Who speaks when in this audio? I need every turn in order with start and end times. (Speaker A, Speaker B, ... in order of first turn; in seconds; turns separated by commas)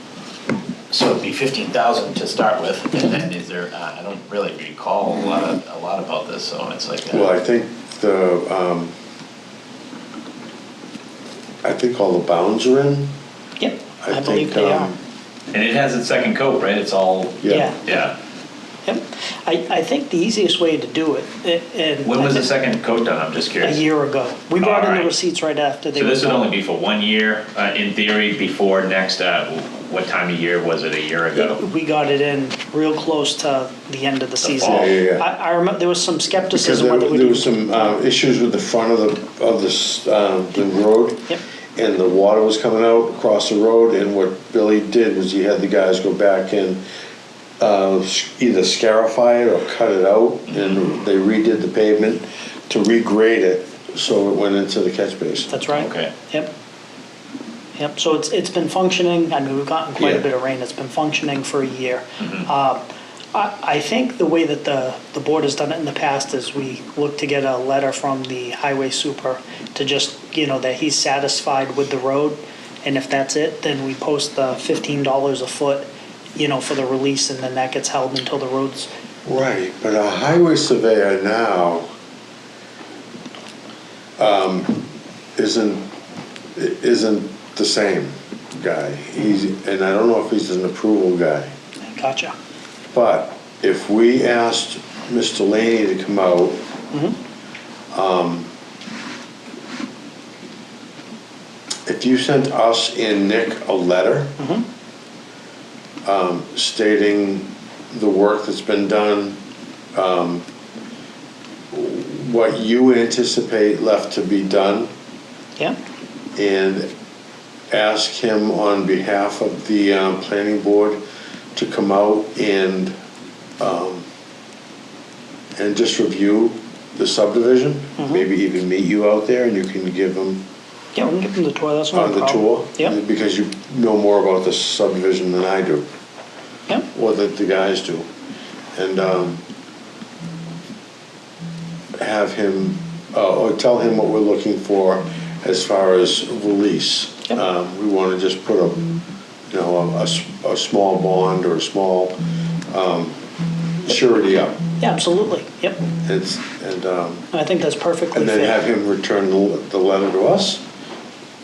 Speaker A: 0.9-7.3, Speaker B: 7.1-8.9, Speaker B: 11.6-13.1, Speaker C: 13.6-14.9, Speaker B: 14.0-15.0, Speaker A: 15.5-18.2, Speaker B: 17.4-17.7, Speaker C: 17.5-17.8, Speaker C: 18.8-22.5, Speaker A: 22.0-23.8, Speaker C: 23.6-26.5, Speaker A: 24.6-25.1, Speaker A: 25.9-31.6, Speaker C: 31.3-37.9, Speaker A: 34.4-34.9, Speaker B: 34.6-35.2, Speaker B: 36.5-46.8, Speaker B: 47.6-55.5, Speaker A: 50.5-50.8, Speaker C: 55.5-56.5, Speaker A: 55.7-56.1, Speaker C: 57.8-78.9, Speaker B: 60.0-60.2, Speaker A: 62.2-62.5, Speaker B: 79.2-81.9, Speaker B: 84.2-85.9, Speaker B: 86.5-91.5, Speaker C: 91.8-92.3, Speaker B: 92.9-96.6, Speaker C: 96.9-97.2, Speaker B: 97.9-98.5, Speaker B: 101.9-104.4, Speaker C: 104.4-104.6, Speaker B: 106.0-109.4, Speaker B: 109.9-110.4, Speaker B: 111.7-114.9, Speaker B: 116.4-116.9, Speaker B: 117.7-121.0, Speaker B: 121.5-122.9, Speaker B: 123.6-124.0, Speaker B: 125.5-130.4, Speaker C: 128.0-128.2, Speaker C: 130.9-133.0, Speaker B: 131.9-135.9, Speaker B: 136.9-138.1, Speaker B: 138.8-139.4, Speaker B: 142.0-148.8, Speaker B: 149.5-152.2, Speaker B: 152.7-153.2, Speaker B: 153.8-154.6, Speaker C: 154.8-155.8, Speaker B: 156.0-157.3, Speaker C: 157.3-158.6, Speaker B: 158.1-160.6